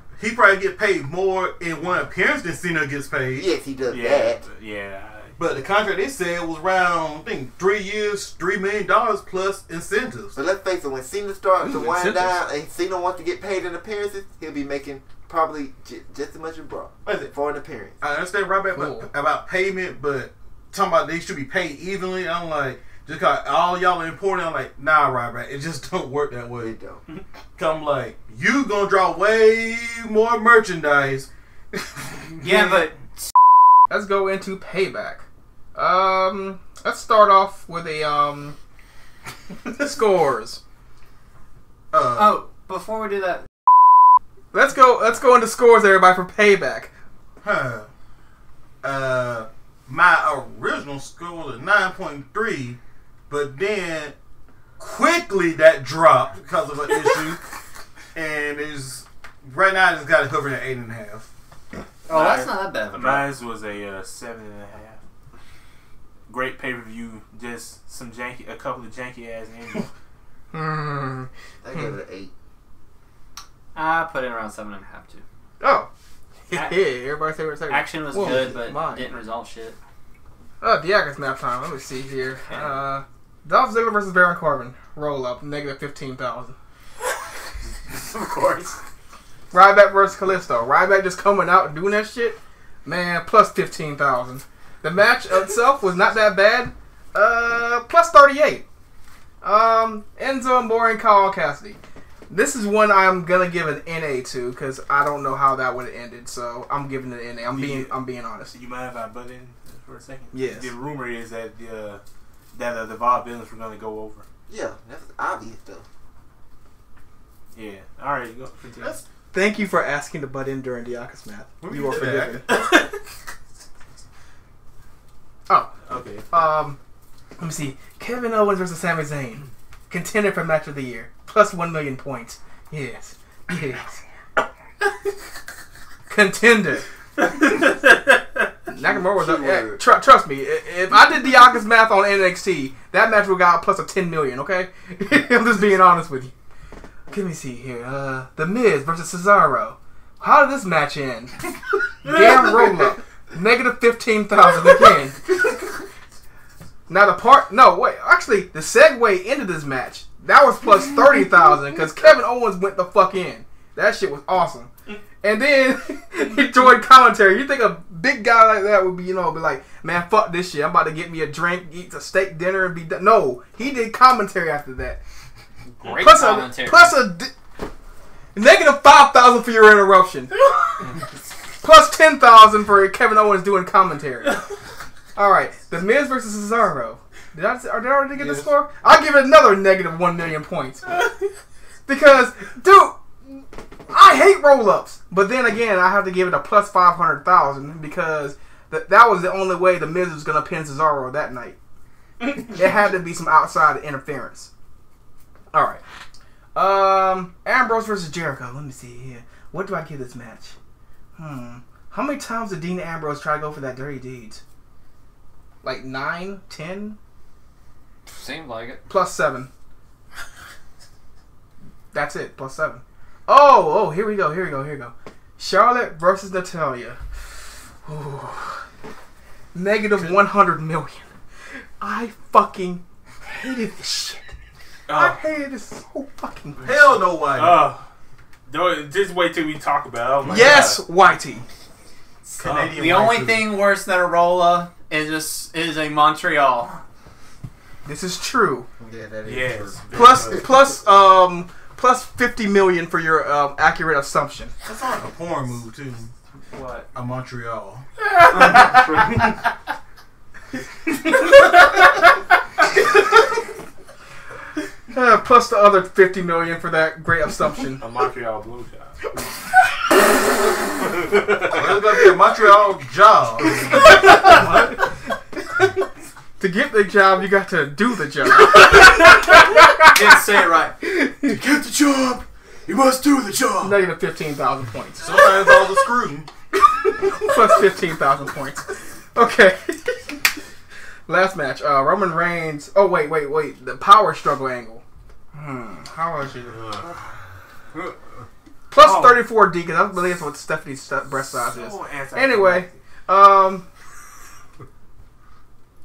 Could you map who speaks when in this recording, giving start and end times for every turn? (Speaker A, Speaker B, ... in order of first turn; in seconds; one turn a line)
Speaker A: 0.2-3.5
Speaker B: 3.4-4.4
Speaker C: 3.9-5.4
Speaker A: 5.4-10.4
Speaker B: 10.3-18.0
Speaker D: 11.7-12.3
Speaker A: 17.1-17.3
Speaker A: 18.0-26.7
Speaker D: 18.7-19.1
Speaker B: 26.6-27.0
Speaker A: 27.6-32.9
Speaker E: 32.4-33.3
Speaker D: 33.9-35.2
Speaker D: 35.7-38.5
Speaker D: 39.6-40.6
Speaker A: 41.9-42.4
Speaker E: 42.1-43.4
Speaker D: 44.5-46.9
Speaker A: 47.4-47.9
Speaker A: 48.8-52.8
Speaker A: 53.3-54.1
Speaker A: 54.8-57.5
Speaker A: 58.1-61.3
Speaker E: 62.1-63.3
Speaker C: 62.1-65.0
Speaker C: 66.3-69.9
Speaker D: 70.5-71.3
Speaker B: 71.6-72.3
Speaker E: 73.7-75.2
Speaker D: 75.6-75.9
Speaker D: 76.5-79.1
Speaker E: 76.5-76.8
Speaker E: 77.7-79.8
Speaker D: 80.6-86.5
Speaker E: 87.9-88.8
Speaker D: 89.5-98.6
Speaker D: 99.4-101.8
Speaker D: 102.3-108.5
Speaker C: 107.5-107.9
Speaker C: 108.5-112.0
Speaker D: 110.3-110.7
Speaker C: 112.5-114.2
Speaker B: 114.5-115.8
Speaker C: 117.5-119.0
Speaker D: 119.3-122.4
Speaker A: 121.6-122.4
Speaker C: 122.5-122.9
Speaker C: 125.8-126.3
Speaker D: 126.3-126.8
Speaker D: 127.4-133.9
Speaker D: 136.1-136.8
Speaker C: 137.4-137.8
Speaker D: 138.7-146.3
Speaker B: 138.8-139.8
Speaker D: 147.1-151.3
Speaker D: 152.0-155.2
Speaker D: 156.9-164.7
Speaker D: 165.2-175.0
Speaker E: 175.8-176.9
Speaker D: 175.9-177.3
Speaker D: 178.3-180.3
Speaker D: 181.6-184.4
Speaker D: 185.2-190.9
Speaker A: 188.2-188.5
Speaker D: 191.9-201.6
Speaker D: 202.4-204.5
Speaker D: 205.5-205.8
Speaker D: 206.5-210.6
Speaker D: 211.2-214.4
Speaker D: 215.6-217.0
Speaker E: 218.1-218.8
Speaker D: 218.9-219.5
Speaker D: 221.9-227.0
Speaker D: 227.8-228.6
Speaker D: 229.5-231.1
Speaker D: 231.8-234.3
Speaker C: 234.9-235.2
Speaker D: 234.9-236.9
Speaker A: 236.6-237.6
Speaker C: 237.3-237.8
Speaker C: 238.5-240.8
Speaker D: 240.2-241.4
Speaker E: 242.2-246.8
Speaker A: 242.4-243.5
Speaker C: 242.4-242.8
Speaker D: 247.8-248.7
Speaker B: 248.8-250.4
Speaker C: 249.2-250.5
Speaker A: 249.9-250.4
Speaker D: 250.3-254.5
Speaker A: 254.6-256.1
Speaker A: 256.9-259.4
Speaker C: 258.3-259.2
Speaker A: 260.9-261.4
Speaker A: 262.8-263.2
Speaker D: 264.9-267.8
Speaker C: 267.8-269.0
Speaker C: 271.0-271.7
Speaker A: 271.5-274.9
Speaker D: 276.4-280.0
Speaker E: 278.6-280.8
Speaker D: 280.8-281.4
Speaker A: 281.3-283.7
Speaker D: 283.6-285.4
Speaker A: 285.0-287.3
Speaker D: 287.2-290.0
Speaker D: 291.1-294.8
Speaker D: 295.3-296.5
Speaker E: 297.7-298.2
Speaker D: 298.7-303.6
Speaker A: 298.8-299.2
Speaker C: 301.3-302.8